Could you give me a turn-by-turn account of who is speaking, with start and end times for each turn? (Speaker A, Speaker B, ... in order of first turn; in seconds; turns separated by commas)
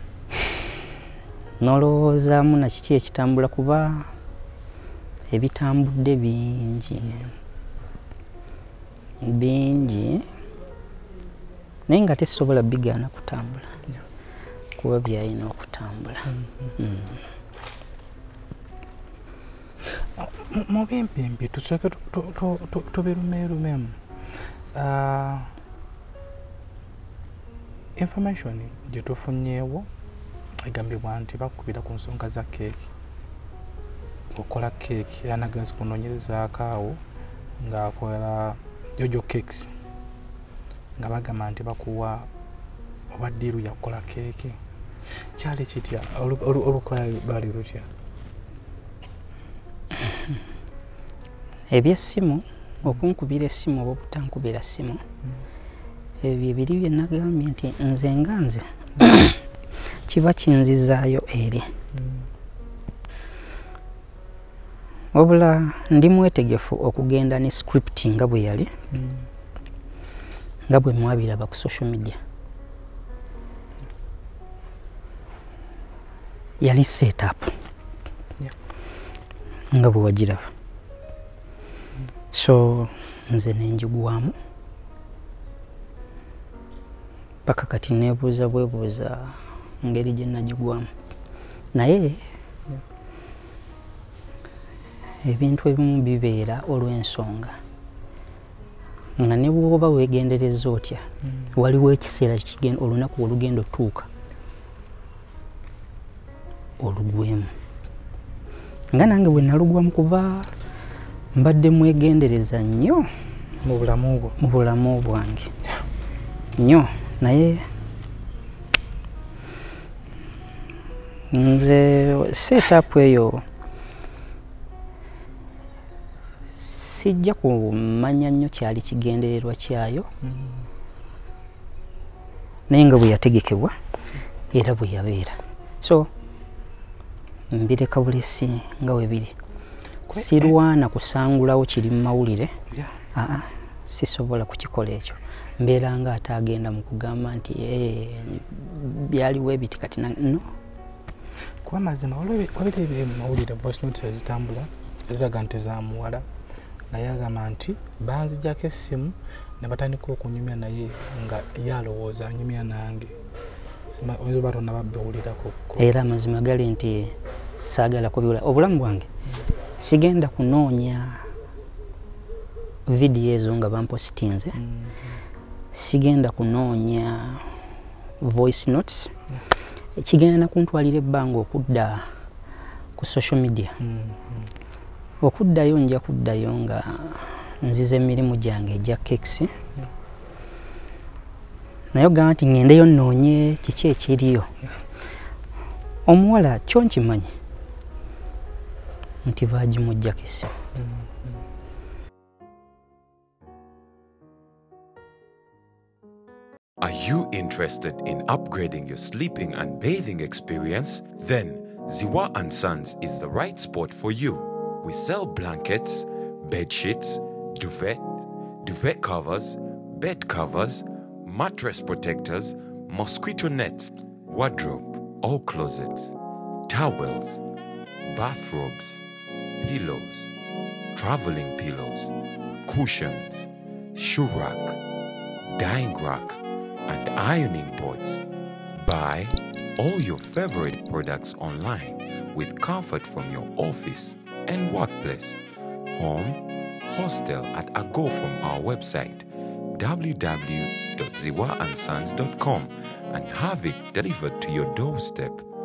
Speaker A: 1.6-4.1, Speaker A: 5.3-7.2, Speaker B: 6.9-7.3, Speaker A: 9.2-10.2, Speaker A: 11.9-13.7, Speaker A: 14.8-17.2, Speaker B: 16.3-16.7, Speaker B: 19.8-24.0, Speaker B: 24.7-25.5, Speaker B: 27.9-29.9, Speaker B: 30.6-32.9, Speaker B: 34.3-37.0, Speaker B: 37.6-39.7, Speaker B: 41.0-42.3, Speaker B: 43.1-44.6, Speaker B: 45.4-47.9, Speaker A: 51.7-55.0, Speaker A: 56.2-59.4, Speaker A: 60.1-61.6, Speaker B: 61.9-62.3, Speaker A: 65.1-68.7, Speaker B: 68.9-69.3, Speaker A: 70.7-72.2, Speaker A: 76.6-77.5, Speaker A: 79.7-80.5, Speaker A: 82.3-84.3, Speaker A: 87.5-90.9, Speaker A: 91.7-92.2, Speaker A: 95.2-97.5, Speaker A: 99.2-104.1, Speaker A: 106.8-107.5, Speaker A: 108.9-110.5, Speaker A: 111.3-113.1, Speaker B: 113.6-114.4, Speaker A: 114.4-115.5, Speaker A: 116.6-117.6, Speaker A: 121.3-123.4, Speaker A: 126.5-130.1, Speaker B: 130.2-130.7, Speaker A: 132.7-133.7, Speaker A: 134.5-136.1, Speaker A: 137.5-139.3, Speaker B: 140.1-140.5, Speaker A: 140.1-142.5, Speaker A: 143.1-150.4, Speaker B: 151.6-156.2, Speaker B: 156.9-163.2, Speaker B: 163.8-165.9, Speaker A: 165.8-169.1, Speaker A: 169.8-171.2, Speaker A: 172.9-174.6, Speaker B: 174.5-175.2, Speaker A: 175.7-177.4, Speaker A: 178.2-179.1, Speaker A: 180.0-182.0, Speaker A: 183.0-183.7, Speaker B: 183.8-184.5, Speaker A: 185.2-189.5, Speaker A: 191.9-194.5, Speaker A: 196.1-197.3, Speaker A: 199.2-200.5, Speaker B: 200.7-201.4, Speaker C: 206.8-226.1, Speaker C: 226.7-227.4, Speaker C: 228.0-229.0, Speaker C: 229.6-230.3, Speaker C: 230.9-232.1, Speaker C: 232.6-234.8, Speaker C: 235.5-245.4, Speaker C: 245.9-255.4